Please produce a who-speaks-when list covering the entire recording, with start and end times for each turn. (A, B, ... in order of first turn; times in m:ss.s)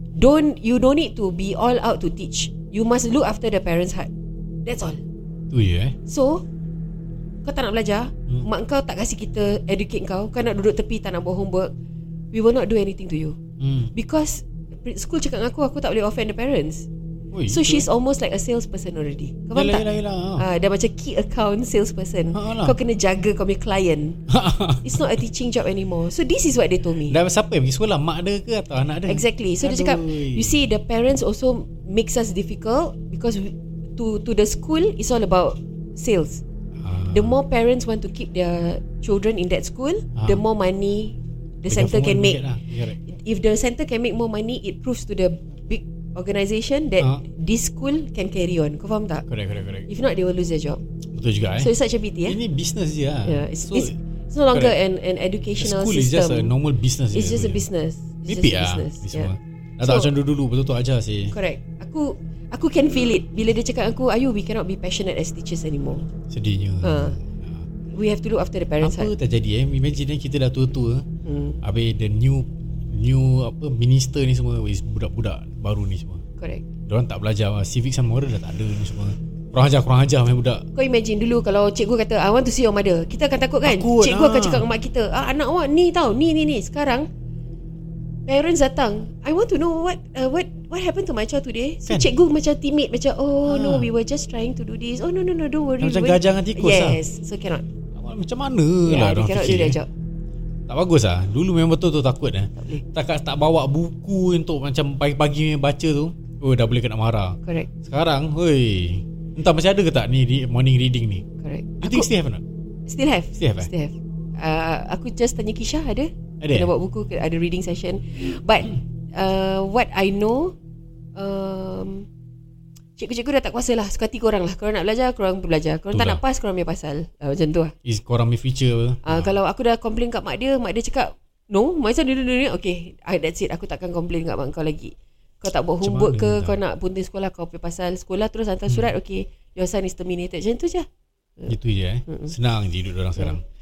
0:00.2-0:04.1 A
0:04.6-0:05.0 A
0:05.5-0:06.0 B
0:06.0-0:06.4 A
0:07.4-0:11.7 A
0:12.3-0:13.4 A
0:13.6-0:13.9 B
0:13.9-0:16.8 A
0:17.3-0:17.8 B
0:17.5-0:19.8 A
0:19.5-0:20.4 B
0:20.4-0:24.2 A
0:22.3-0:22.7 B
0:24.3-0:25.0 B
0:24.8-0:27.2 A
0:27.1-0:30.5 B
0:29.1-0:36.4 A
0:36.8-0:37.4 B
0:37.1-0:42.4 A
0:40.2-0:40.4 B
0:41.7-0:43.0 B
0:43.1-0:49.2 A
0:49.3-0:49.9 B
0:49.9-0:50.8 A
0:51.1-0:51.7 B
0:51.6-0:52.4 A
0:52.2-0:54.0 B
0:53.2-0:56.5 A
0:55.6-0:57.6 B
0:57.1-1:00.1 A
0:58.3-1:01.3 B
1:01.3-1:06.1 A
1:06.3-1:07.6 B
1:06.8-1:07.2 A
1:07.9-1:09.1 A
1:08.8-1:11.0 B
1:11.2-1:11.6 A
1:11.6-1:16.2 B
1:16.4-1:16.6 A
1:16.9-1:20.6 B
1:20.7-1:27.0 A
1:23.6-1:24.7 B
1:28.3-1:37.6 A
1:33.4-1:33.9 B
1:35.8-1:37.0 B
1:37.9-1:39.8 B
1:38.8-1:39.9 A
1:40.7-1:51.2 B
1:42.6-1:42.8 A
1:47.4-1:47.7 A
1:51.4-1:52.1 A
1:51.8-1:52.4 B
1:52.9-2:00.5 A
1:53.4-1:53.7 B
1:56.4-1:56.7 B
2:01.2-2:02.1 A
2:03.0-2:07.7 A
2:05.9-2:06.2 B
2:07.8-2:09.3 B
2:09.0-2:20.9 A
2:15.8-2:16.6 B
2:18.7-2:18.9 B
2:21.5-2:23.4 B
2:22.1-2:22.3 A